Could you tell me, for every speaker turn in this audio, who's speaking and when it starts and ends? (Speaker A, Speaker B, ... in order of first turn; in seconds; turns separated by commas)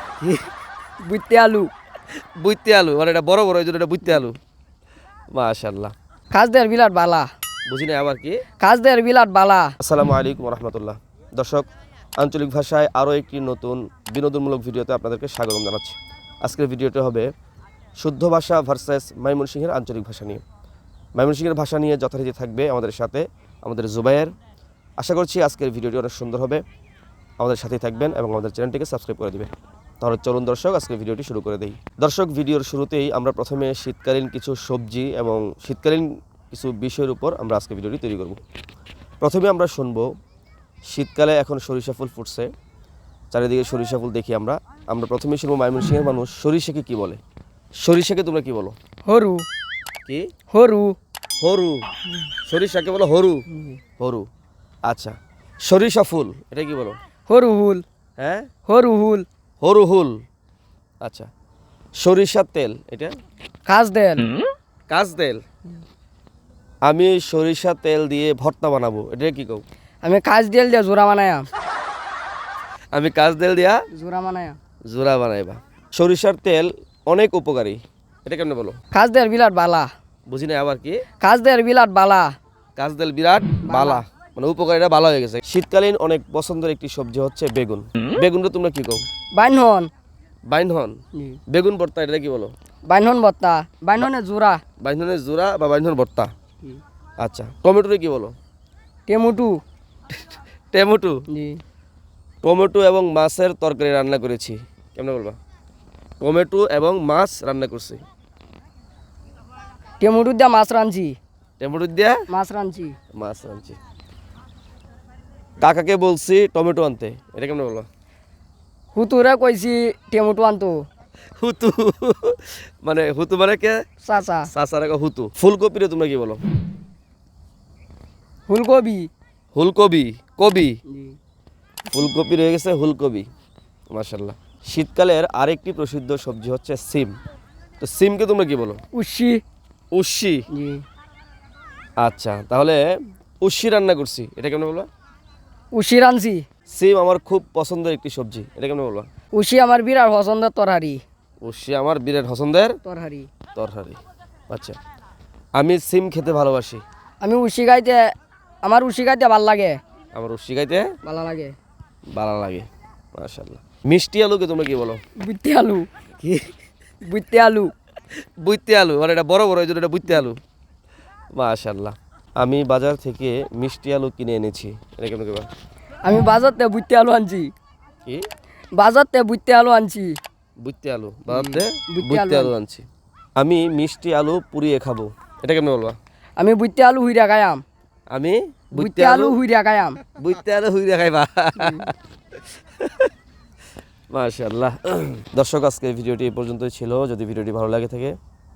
Speaker A: 1.0-1.7, Speaker B: 2.4-4.4, Speaker B: 5.3-5.9, Speaker A: 6.3-7.3, Speaker B: 7.7-8.4, Speaker A: 8.6-9.8, Speaker B: 9.8-11.7, Speaker B: 12.2-17.3, Speaker B: 18.0-20.4, Speaker B: 21.2-24.3, Speaker B: 25.0-26.6, Speaker B: 27.4-38.4, Speaker B: 39.2-40.1, Speaker B: 40.9-42.5, Speaker B: 43.3-47.2, Speaker B: 47.8-48.8, Speaker A: 49.1-49.5, Speaker A: 50.5-51.0, Speaker B: 51.4-51.9, Speaker B: 52.5-53.5, Speaker B: 54.0-54.3, Speaker B: 54.9-57.0, Speaker A: 57.3-57.8, Speaker B: 58.2-58.5, Speaker A: 58.7-59.3, Speaker B: 59.6-60.2, Speaker B: 61.0-61.3, Speaker B: 62.0-63.1, Speaker A: 63.7-64.3, Speaker B: 64.9-65.4, Speaker B: 66.8-69.6, Speaker A: 70.0-71.5, Speaker B: 72.9-73.8, Speaker A: 73.9-74.6, Speaker B: 74.9-78.8, Speaker A: 78.9-79.9, Speaker B: 80.3-81.0, Speaker A: 81.2-82.3, Speaker B: 82.8-89.0, Speaker A: 83.6-84.0, Speaker A: 89.3-89.9, Speaker B: 90.5-91.0, Speaker A: 91.2-91.4, Speaker B: 91.5-92.5, Speaker A: 92.9-94.6, Speaker B: 94.8-96.3, Speaker B: 97.2-98.3, Speaker A: 99.1-99.6, Speaker B: 100.7-101.2, Speaker A: 101.3-101.6, Speaker B: 102.4-105.4, Speaker B: 106.2-108.0, Speaker A: 110.0-111.2, Speaker B: 111.6-112.2, Speaker A: 112.3-112.9, Speaker B: 113.2-113.8, Speaker B: 115.6-117.9, Speaker A: 119.0-120.7, Speaker B: 121.4-123.8, Speaker A: 124.0-124.5, Speaker B: 124.5-126.4, Speaker A: 128.5-129.1, Speaker B: 129.6-130.8, Speaker A: 130.9-131.2, Speaker B: 131.9-133.3, Speaker B: 133.9-137.1, Speaker B: 137.8-138.8, Speaker A: 138.9-139.4, Speaker B: 139.9-140.4, Speaker A: 140.5-140.8, Speaker B: 142.0-142.8, Speaker B: 143.4-144.9, Speaker A: 145.7-146.4, Speaker B: 146.7-149.1, Speaker A: 149.3-151.0, Speaker B: 151.4-152.8, Speaker A: 152.8-153.3, Speaker B: 153.5-154.8, Speaker B: 155.6-156.8, Speaker A: 157.2-158.1, Speaker A: 158.6-159.8, Speaker B: 160.2-160.9, Speaker A: 161.0-161.6, Speaker B: 162.1-165.0, Speaker A: 165.2-165.9, Speaker B: 166.2-166.5, Speaker A: 167.1-167.7, Speaker B: 168.4-170.4, Speaker B: 171.4-175.5, Speaker A: 176.0-177.5, Speaker A: 178.8-180.2, Speaker B: 180.6-182.9, Speaker A: 181.3-182.5, Speaker B: 183.4-186.0, Speaker A: 186.4-187.6, Speaker B: 188.1-189.4, Speaker A: 188.8-190.0, Speaker B: 190.2-193.1, Speaker A: 191.6-191.9, Speaker B: 194.1-198.2